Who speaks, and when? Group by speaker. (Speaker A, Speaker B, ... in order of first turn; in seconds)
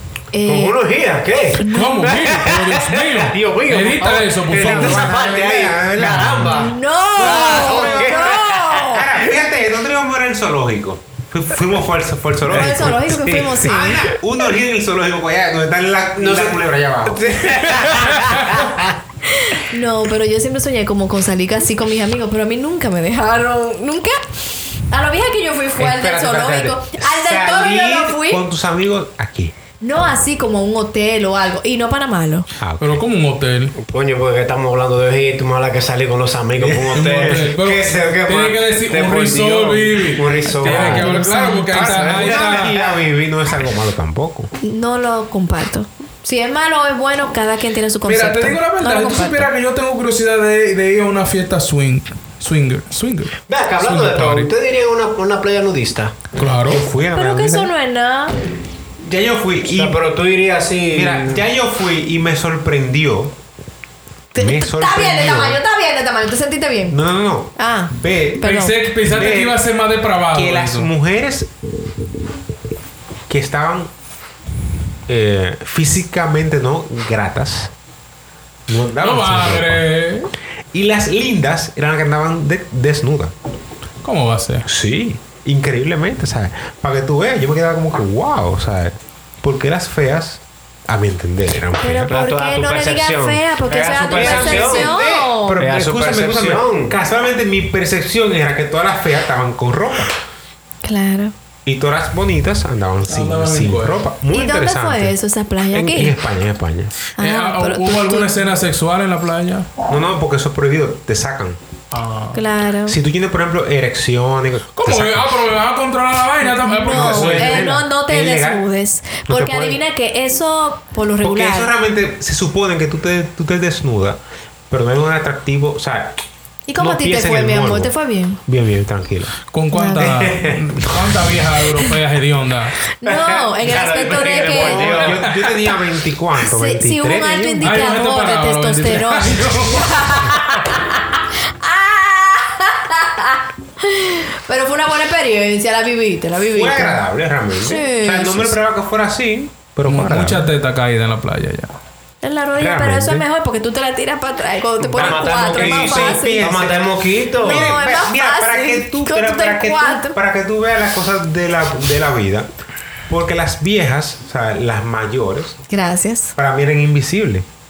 Speaker A: 0.3-0.8, 1.6-2.1, 6.5-9.1, 12.5-14.1, 19.3-24.2, 24.9-28.4, 29.8-32.5, 40.6-41.9, 44.6-49.5, 57.1-58.3, 64.3-67.0, 67.5-68.7, 91.8-95.6, 100.8-101.3, 104.3-106.2, 107.2-108.3, 112.3-113.0, 116.4-121.7, 126.7-128.4, 129.7-130.3, 133.0-135.2, 136.4-147.0, 147.6-148.6, 152.2-156.5, 157.4-160.2, 165.7-166.3
Speaker B: 0.4-9.3, 12.5-13.9, 16.2-18.9, 33.8-43.0, 53.5-56.1, 59.6-61.4, 92.1-97.0, 130.1-130.4, 133.0-135.3, 154.8-157.8
Speaker C: 1.7-5.1, 32.8-33.7, 36.9-42.7, 48.0-54.5, 56.4-56.8, 68.4-70.9, 79.0-80.3, 84.0-84.6, 103.1-104.0, 107.2-109.7, 111.9-112.4, 114.7-117.8, 129.5-132.8, 137.6-140.5, 149.8-151.8
Speaker D: 4.5-18.1, 25.8-29.5, 32.6-33.0, 36.6-37.5, 40.7-41.0, 41.7-44.5, 56.6-57.7, 59.0-60.0, 60.9-63.3, 64.4-65.6, 66.9-69.6, 70.3-71.5, 73.3-73.9, 75.1-77.7, 78.7-79.8, 80.7-83.3, 84.6-92.2, 93.8-100.1, 101.7-105.2, 105.7-106.9, 109.9-111.6, 112.9-115.4, 116.8-118.6, 119.3-119.8, 121.2-126.2, 126.8-127.9, 128.4-129.3, 130.7-131.0, 134.5-137.9, 146.5-150.4, 152.6-153.3, 154.9-162.5, 163.1-165.6, 166.4-167.4